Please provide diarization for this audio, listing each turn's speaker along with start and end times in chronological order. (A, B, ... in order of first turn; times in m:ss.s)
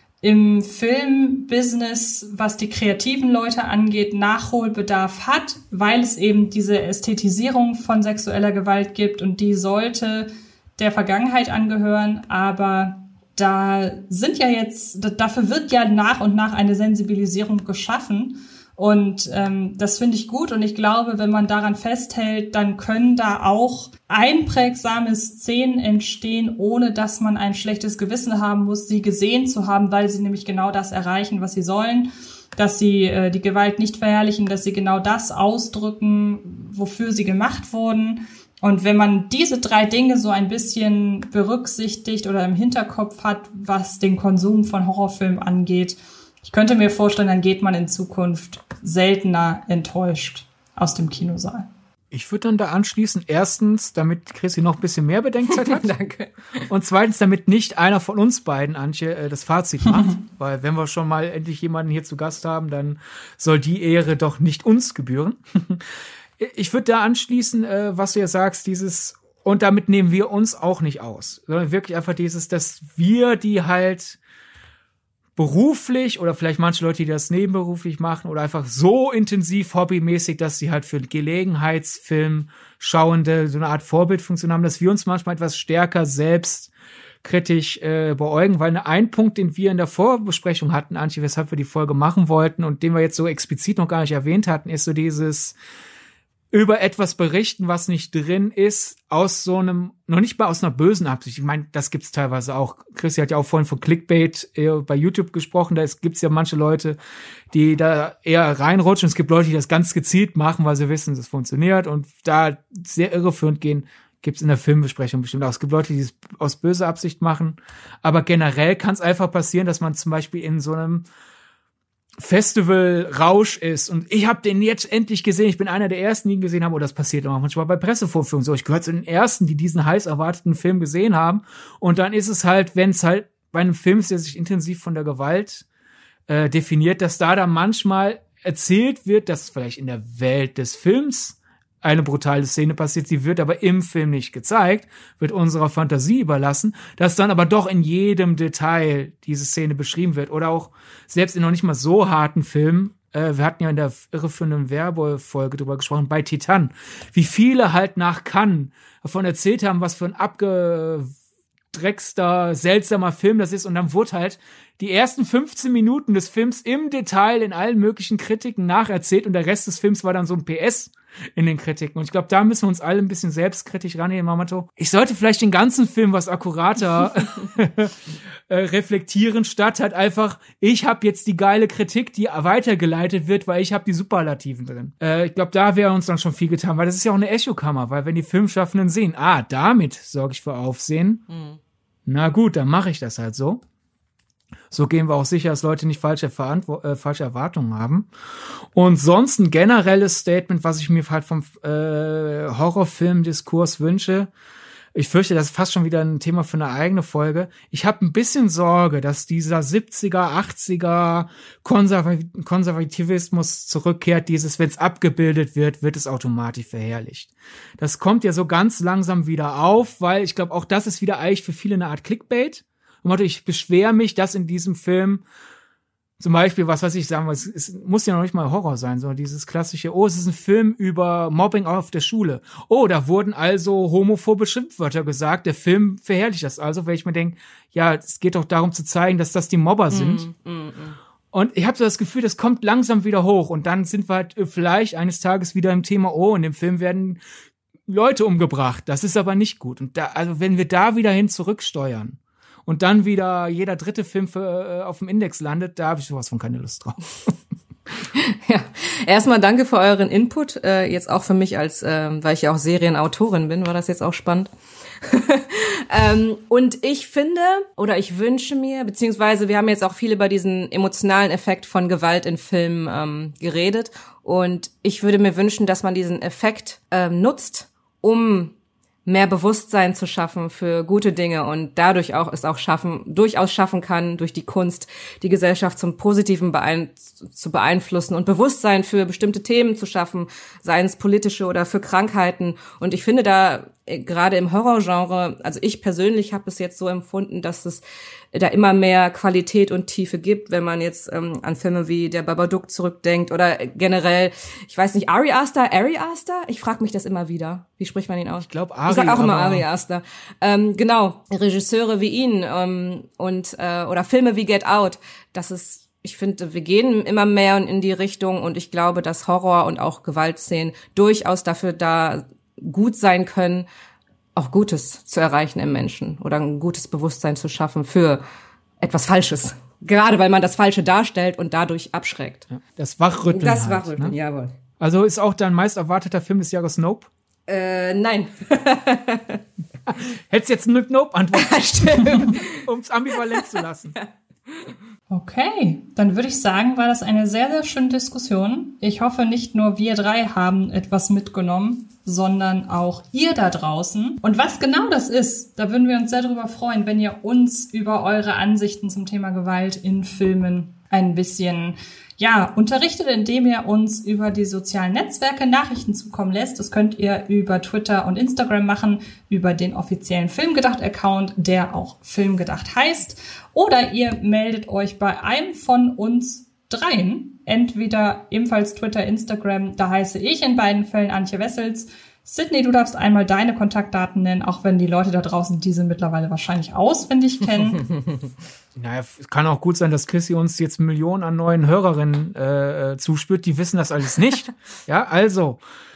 0:00.2-0:51.7 A
0:52.1-0:55.9 B
0:55.5-0:56.6 C
0:56.7-1:05.8 B
1:06.4-1:14.2 B
1:15.4-1:26.7 B
1:27.2-1:35.6 B
1:36.5-1:47.0 B
1:47.5-2:01.0 B
2:02.2-2:15.6 B
2:16.3-2:41.1 B
2:41.7-3:11.2 B
3:11.3-3:11.6 C
3:12.0-3:13.6 B
3:14.7-3:18.1 B
3:18.7-3:24.3 B
3:24.9-3:45.2 B
3:46.2-4:00.2 B
3:59.9-4:01.0 C
4:01.3-4:07.2 B
4:07.9-4:17.3 B
4:18.1-4:24.5 C
4:25.0-4:38.5 C
4:39.0-5:23.7 C
5:08.4-5:09.7 B
5:24.3-5:28.2 C
5:28.8-5:32.5 C
5:32.6-5:34.1 B
5:33.3-5:34.5 C
5:34.8-5:37.1 B
5:37.5-5:39.4 C
5:39.9-5:44.0 B
5:41.3-5:42.6 C
5:43.2-5:44.7 C
5:45.1-6:27.8 A
6:27.7-6:28.2 C
6:28.8-6:35.6 B